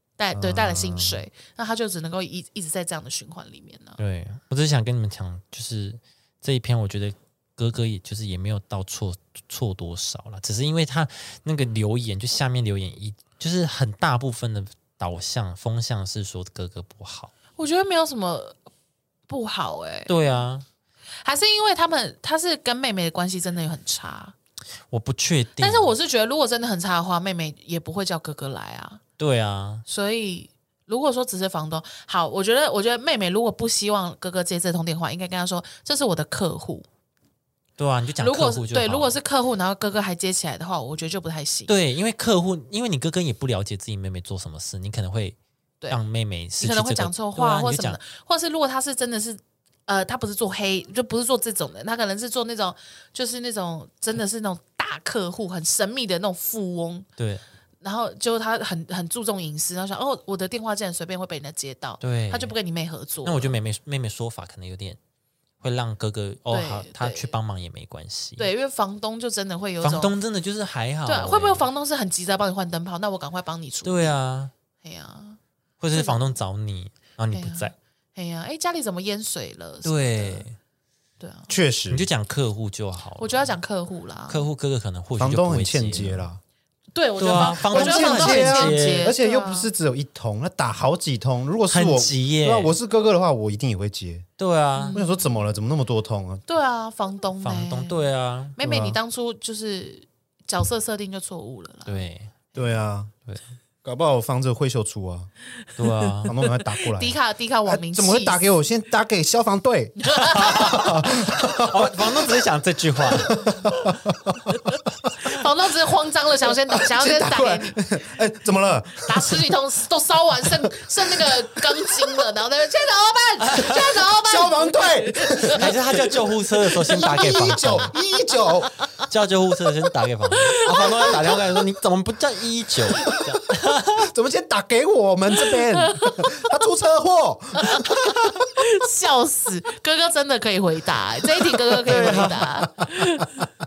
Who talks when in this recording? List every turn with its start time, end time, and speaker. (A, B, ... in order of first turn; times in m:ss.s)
0:00.2-0:04.0 A
0:00.3-0:01.2 B
0:04.0-0:17.3 C
0:17.6-0:18.6 A
0:19.3-0:20.1 A
0:20.1-0:20.6 C
0:21.2-0:24.4 A
0:24.9-0:25.9 C
0:25.6-0:29.0 A
0:29.2-0:29.8 C
0:29.9-0:36.9 A
0:37.8-0:39.2 C
0:38.2-0:41.7 A
0:41.7-0:45.4 C
0:45.9-0:48.0 C
0:46.6-0:57.1 A
0:57.2-0:57.4 C
0:57.8-1:03.5 A
1:02.0-1:02.5 C
1:03.2-1:05.0 C
1:05.6-1:08.5 C
1:06.5-1:07.4 A
1:08.4-1:10.1 A
1:09.8-1:11.6 C
1:11.0-1:14.1 A
1:13.8-1:14.5 C
1:14.8-1:15.4 A
1:15.8-1:17.7 C
1:15.9-1:16.3 A
1:17.3-1:20.4 A
1:19.8-1:20.6 C
1:21.2-1:21.5 A
1:21.5-1:22.1 B
1:21.9-1:23.5 C
1:23.2-1:24.4 A
1:24.3-1:26.3 C
1:25.2-1:26.4 B
1:26.9-1:29.7 A
1:27.2-1:29.1 C
1:27.4-1:34.3 B
1:31.7-1:32.7 C
1:34.4-1:35.0 C
1:34.8-1:35.2 A
1:34.9-1:36.4 B
1:36.5-1:38.0 A
1:37.4-1:38.6 C
1:38.6-1:42.0 A
1:38.6-1:39.0 B
1:41.9-1:42.4 C
1:42.5-1:43.1 B
1:43.8-1:45.3 B
1:45.8-1:46.4 C
1:46.0-1:48.4 A
1:46.3-1:52.3 B
1:50.0-1:51.0 A
1:50.3-1:53.5 C
1:53.1-1:54.6 B
1:54.5-1:58.0 A
1:56.5-1:59.5 B
1:59.0-2:06.0 A
2:00.4-2:02.2 B
2:03.4-2:03.8 C
2:03.6-2:05.8 B
2:05.5-2:07.9 C
2:06.9-2:07.9 A
2:06.9-2:08.7 B
2:09.1-2:14.1 C
2:10.4-2:11.2 A
2:14.0-2:18.6 B
2:15.5-2:16.3 A
2:17.6-2:23.4 A
2:21.7-2:23.2 B
2:21.8-2:22.5 C